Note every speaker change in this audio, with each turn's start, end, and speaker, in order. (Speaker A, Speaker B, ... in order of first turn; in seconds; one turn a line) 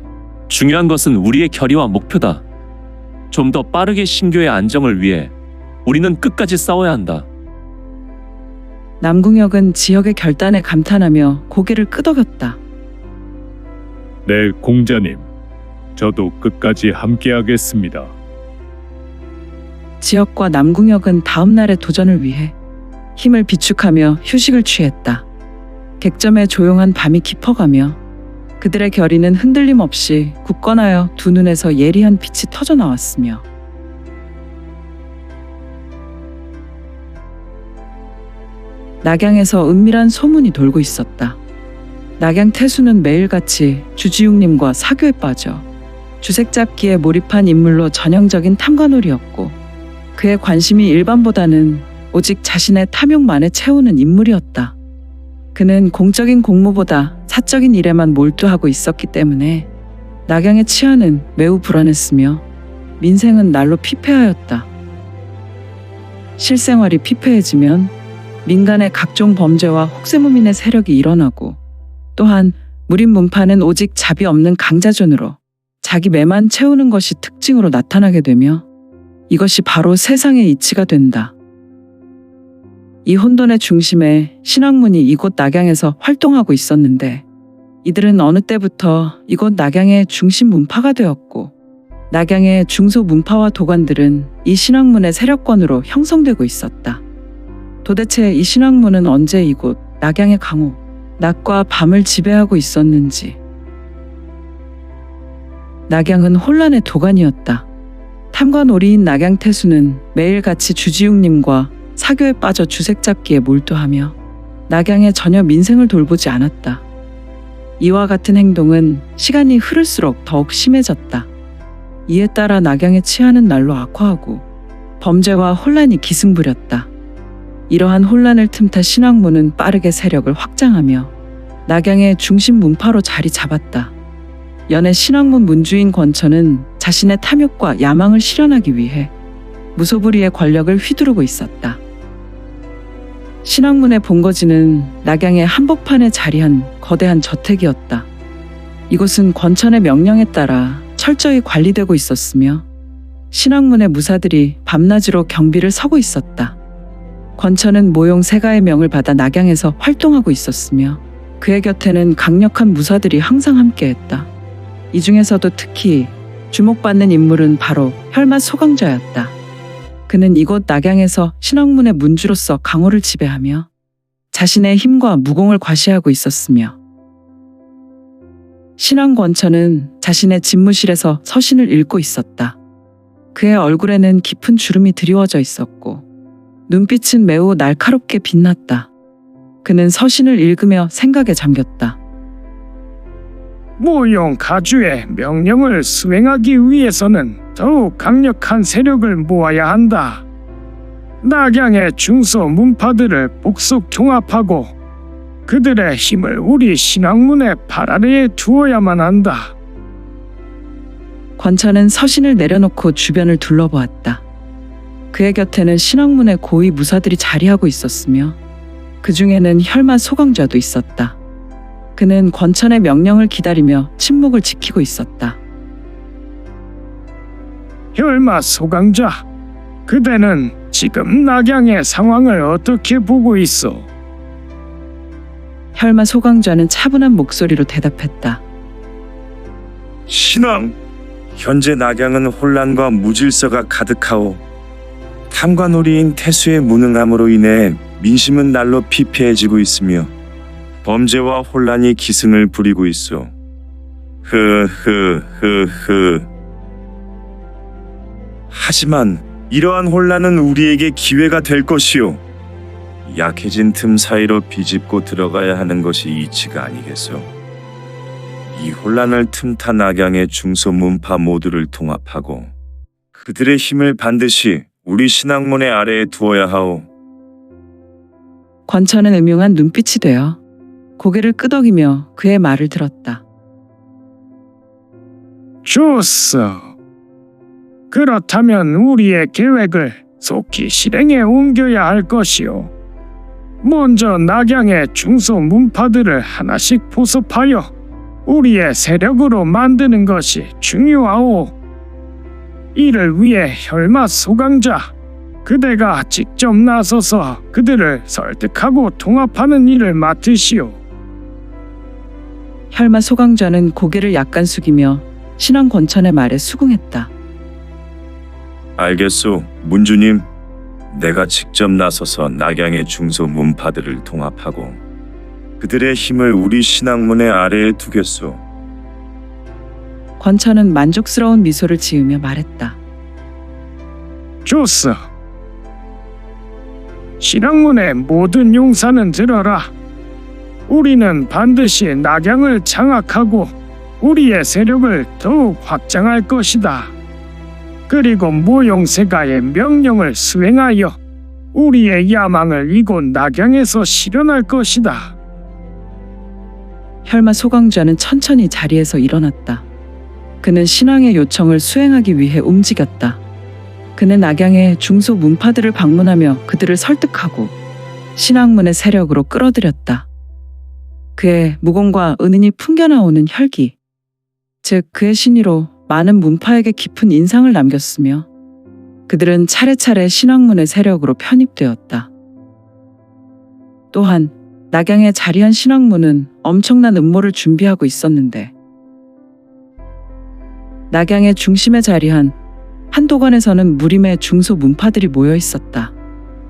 Speaker A: 0.5-2.4
Speaker A: 3.3-5.3
Speaker A: 5.8-7.3
Speaker B: 9.0-12.6
Speaker C: 14.2-15.3
Speaker C: 16.0-18.1
Speaker B: 20.0-22.5
Speaker B: 23.2-25.2
Speaker B: 26.0-28.0
Speaker B: 28.6-33.4
Speaker B: 39.0-41.4
Speaker B: 42.2-45.6
Speaker B: 46.2-49.6
Speaker B: 50.2-54.7
Speaker B: 55.5-59.7
Speaker B: 60.3-62.4
Speaker B: 63.0-64.7
Speaker B: 66.4-67.9
Speaker B: 68.5-71.6
Speaker B: 72.2-78.7
Speaker B: 79.3-81.3
Speaker B: 83.0-87.2
Speaker B: 87.8-91.5
Speaker B: 92.1-97.0
Speaker B: 97.8-103.4
Speaker B: 105.9-107.7
Speaker B: 108.3-114.2
Speaker B: 114.7-116.8
Speaker B: 117.8-121.3
Speaker B: 122.1-124.4
Speaker B: 125.0-126.9
Speaker B: 127.7-131.1
Speaker B: 131.7-133.9
Speaker B: 134.7-139.1
Speaker B: 139.8-141.8
Speaker B: 143.4-148.1
Speaker B: 148.9-152.7
Speaker B: 153.3-156.6
Speaker B: 157.4-164.3
Speaker B: 164.9-169.3
Speaker B: 170.1-173.7
Speaker B: 174.3-176.8
Speaker B: 178.8-182.6
Speaker B: 183.3-186.0
Speaker B: 186.7-188.9
Speaker B: 189.6-192.0
Speaker D: 193.8-200.2
Speaker D: 201.2-204.7
Speaker D: 205.5-209.5
Speaker B: 211.4-214.2
Speaker B: 215.1-218.4
Speaker B: 219.0-221.2
Speaker B: 222.0-225.4
Speaker D: 227.9-229.2
Speaker D: 229.9-233.9
Speaker B: 235.8-238.4
Speaker E: 240.1-240.8
Speaker E: 241.3-244.4
Speaker E: 245.3-250.1
Speaker E: 250.8-253.3
Speaker E: 254.2-256.3
Speaker E: 258.5-262.2
Speaker E: 263.1-267.3
Speaker E: 268.5-272.5
Speaker E: 273.1-276.9
Speaker B: 278.7-280.4
Speaker B: 281.0-283.2
Speaker D: 285.6-286.7
Speaker D: 287.9-292.7
Speaker D: 293.6-297.7
Speaker D: 298.3-301.6
Speaker D: 302.8-304.9
Speaker D: 305.4-310.8
Speaker B: 312.7-317.1
Speaker E: 318.8-320.3
Speaker E: 320.9-324.8
Speaker E: 325.6-328.4
Speaker B: 330.2-332.8
Speaker D: 334.4-335.1
Speaker D: 337.2-339.7
Speaker D: 340.7-346.9
Speaker D: 347.9-351.0
Speaker D: 351.5-355.1
Speaker B: 357.1-359.6
Speaker B: 360.4-363.2
Speaker B: 364.0-367.6
Speaker B: 368.2-370.1
Speaker B: 371.2-373.8
Speaker B: 374.6-378.3
Speaker B: 379.1-382.1
Speaker B: 383.9-388.5
Speaker B: 390.9-392.4
Speaker B: 392.9-395.9